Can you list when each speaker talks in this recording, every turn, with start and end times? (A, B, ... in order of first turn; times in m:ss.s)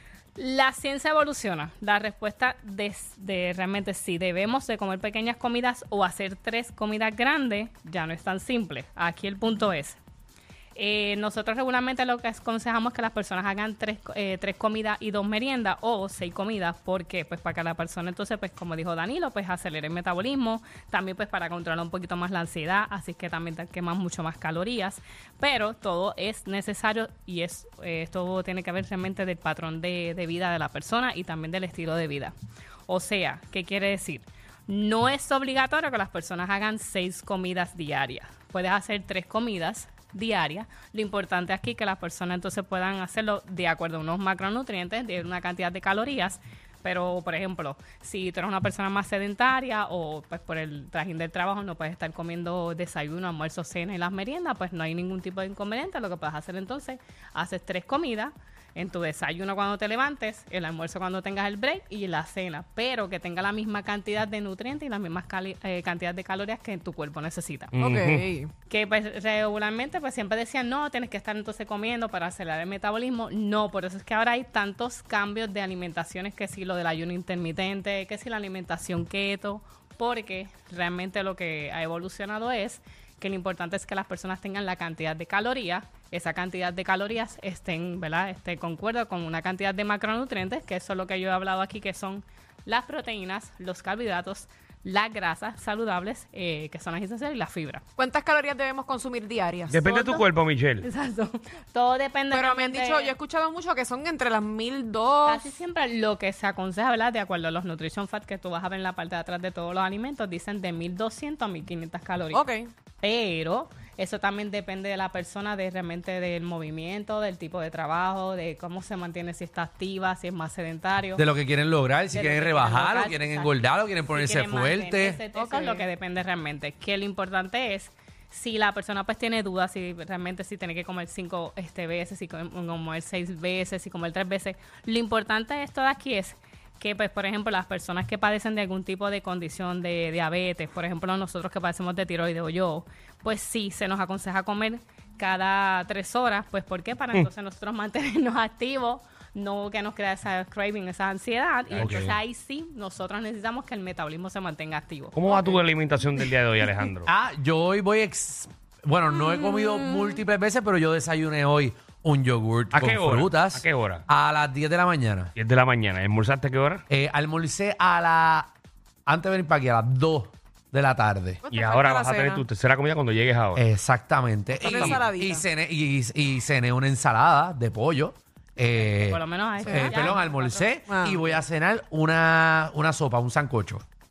0:00.4-0:10.0 A
0:10.8-0:32.3 A
0:32.9-1:07.7 A
1:07.7-1:08.3 B
1:07.8-1:08.5 C
1:08.7-1:37.8 A
1:38.0-1:40.2 C
1:39.7-1:40.9 B
1:40.8-1:43.1 A
1:42.3-1:45.5 C
1:45.3-1:52.5 A
1:52.3-1:52.7 C
1:53.0-2:01.3 A
2:01.2-2:05.2 D
2:02.1-2:35.5 A
2:05.4-2:05.9 C
2:31.7-2:32.1 B
2:31.8-2:32.1 D
2:35.1-2:37.1 B
2:37.1-2:45.3 D
2:42.7-2:44.0 B
2:45.4-2:46.8 B
2:46.9-2:48.5 D
2:49.1-2:51.4 D
2:51.4-2:52.4 C
2:51.5-2:53.6 B
2:53.6-3:03.8 D
2:54.6-2:55.4 C
2:54.7-2:55.0 B
2:58.7-3:00.8 A
2:59.7-3:00.1 C
3:00.9-3:01.2 C